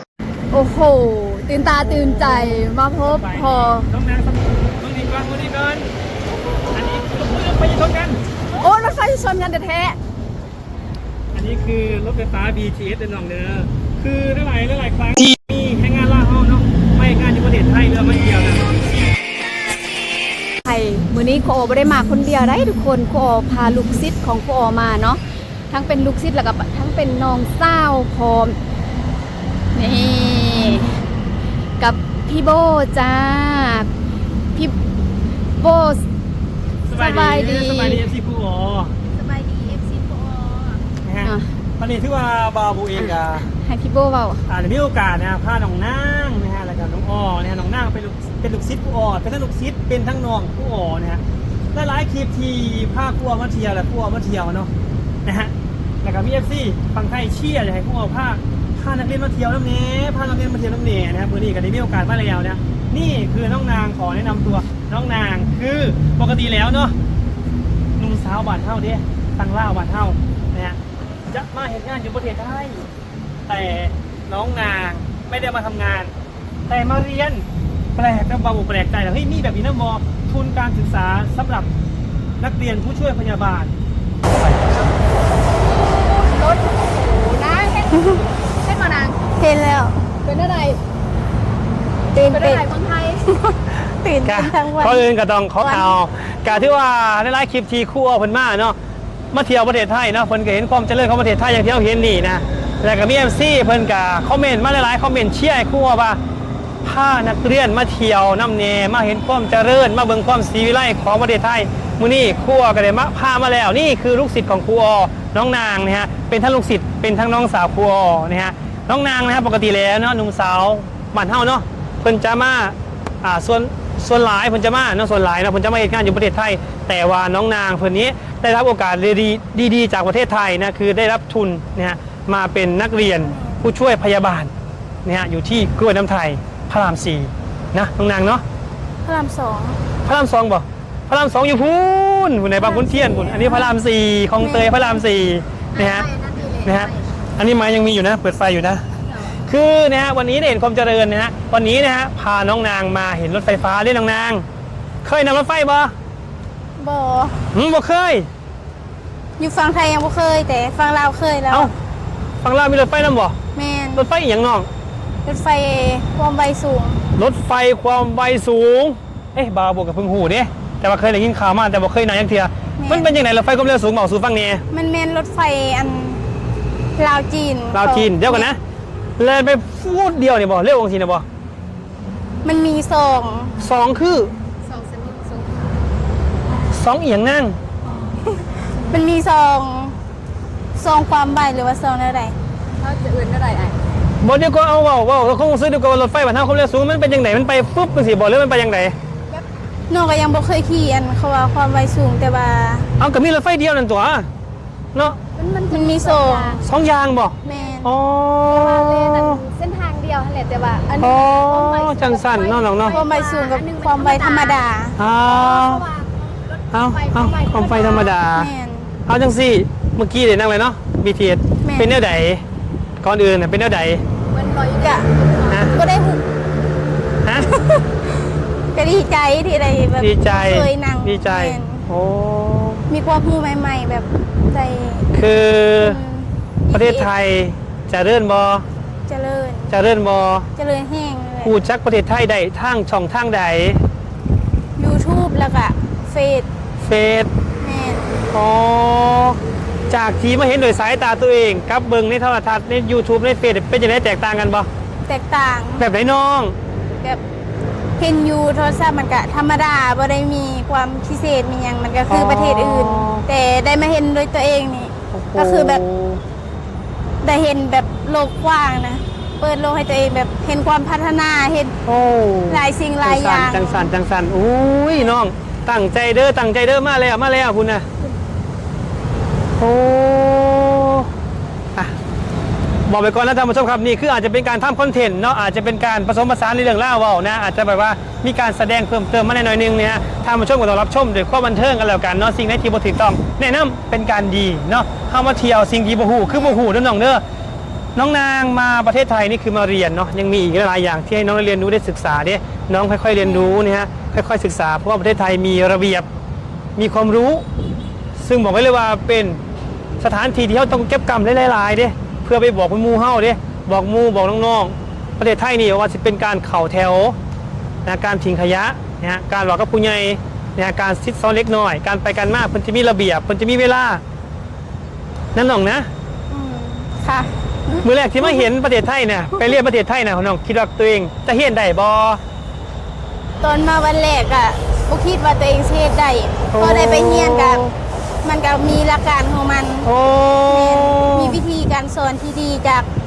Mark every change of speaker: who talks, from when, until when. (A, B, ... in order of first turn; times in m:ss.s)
0:00.5-0:03.9 A
0:01.8-0:05.9 B
0:06.7-0:08.2 B
0:08.6-0:10.0 A
0:11.3-0:18.8 B
0:20.6-0:28.6 A
0:29.8-0:31.0 A
0:31.8-0:33.9 A
0:35.6-0:36.0 A
0:36.9-0:38.9 B
0:36.9-0:38.0 A
0:39.1-0:40.8 C
0:41.0-0:43.5 B
0:43.4-0:44.4 A
0:44.5-0:51.2 B
0:51.7-0:54.7 B
0:55.2-0:55.5 B
0:56.0-1:07.0 B
1:08.0-1:10.8 B
1:11.3-1:12.9 B
1:13.5-1:16.1 B
1:16.7-1:17.4 B
1:18.0-1:21.7 B
1:22.4-1:23.8 B
1:24.3-1:24.7 B
1:25.7-1:29.2 A
1:27.9-1:28.2 C
1:29.4-1:30.0 C
1:30.2-1:30.8 A
1:32.1-1:32.6 C
1:32.2-1:33.3 A
1:33.3-1:35.1 C
1:34.2-1:38.8 B
1:35.6-1:36.0 C
1:39.3-1:46.2 B
1:46.8-2:14.5 B
2:13.2-2:13.6 C
2:15.0-2:18.4 B
2:19.0-2:19.8 C
2:20.0-2:26.1 B
2:22.6-2:23.7 C
2:24.4-2:25.0 C
2:25.7-2:27.1 A
2:26.7-2:28.8 B
2:29.5-2:34.4 B
2:35.0-2:35.9 B
2:36.8-2:37.5 C
2:37.5-2:38.3 B
2:39.4-2:41.7 C
2:42.4-2:43.4 B
2:43.6-2:44.0 C
2:44.0-2:44.7 B
2:45.2-2:47.0 C
2:47.2-2:54.6 B
2:52.8-2:53.1 C
2:54.7-2:56.2 C
2:57.0-2:58.5 C
2:57.7-2:58.6 B
2:59.2-3:01.2 B
3:02.4-3:03.6 C
3:03.6-3:04.3 B
3:04.6-3:05.8 A
3:06.7-3:07.6 B
3:08.7-3:10.0 C
3:10.8-3:12.4 C
3:12.8-3:13.8 A
3:14.2-3:19.0 B
3:19.9-3:22.9 C
3:23.0-3:24.3 B
3:25.2-3:26.7 A
3:25.7-3:26.6 C
3:26.6-3:29.4 B
3:27.4-3:27.7 A
3:27.4-3:27.9 C
3:28.5-3:34.6 A
3:31.0-3:33.0 B
3:32.9-3:35.0 C
3:35.0-3:35.8 B
3:35.2-3:38.2 A
3:36.7-3:38.5 B
3:38.3-3:38.9 C
3:39.1-3:42.4 B
3:41.6-3:42.0 C
3:43.0-3:44.0 B
3:44.3-3:46.2 A
3:44.8-3:45.1 C
3:45.5-3:45.8 B
3:47.2-3:47.5 B
3:47.5-3:47.8 C
3:48.7-3:51.8 C
3:50.0-3:52.9 B
3:52.9-3:55.1 C
3:55.1-3:56.0 B
3:55.8-3:57.1 C
3:56.7-3:58.7 B
3:59.1-3:59.7 C
3:59.7-4:00.5 B
4:00.6-4:01.6 C
4:01.4-4:03.8 B
4:04.8-4:06.5 C
4:06.8-4:07.3 B
4:07.6-4:08.1 C
4:08.3-4:09.4 B
4:09.9-4:14.7 B
4:15.1-4:15.8 C
4:15.8-4:16.6 B
4:18.0-4:25.8 C
4:22.1-4:23.3 B
4:25.1-4:26.2 B
4:27.2-4:31.7 C
4:31.8-4:37.9 B
4:32.5-4:33.9 C
4:39.6-4:41.1 B
4:42.9-4:57.2 B
4:58.0-5:06.1 B
5:03.2-5:03.6 C
5:06.8-5:07.4 B
5:08.2-5:09.4 B
5:10.0-5:17.2 B
5:17.8-5:24.0 B
5:25.4-5:25.9 B
5:26.3-5:27.8 C
5:27.8-5:32.2 B
5:33.4-5:37.7 C
5:36.5-5:37.8 B
5:38.2-5:39.9 C
5:39.8-5:41.4 B
5:40.5-5:42.9 C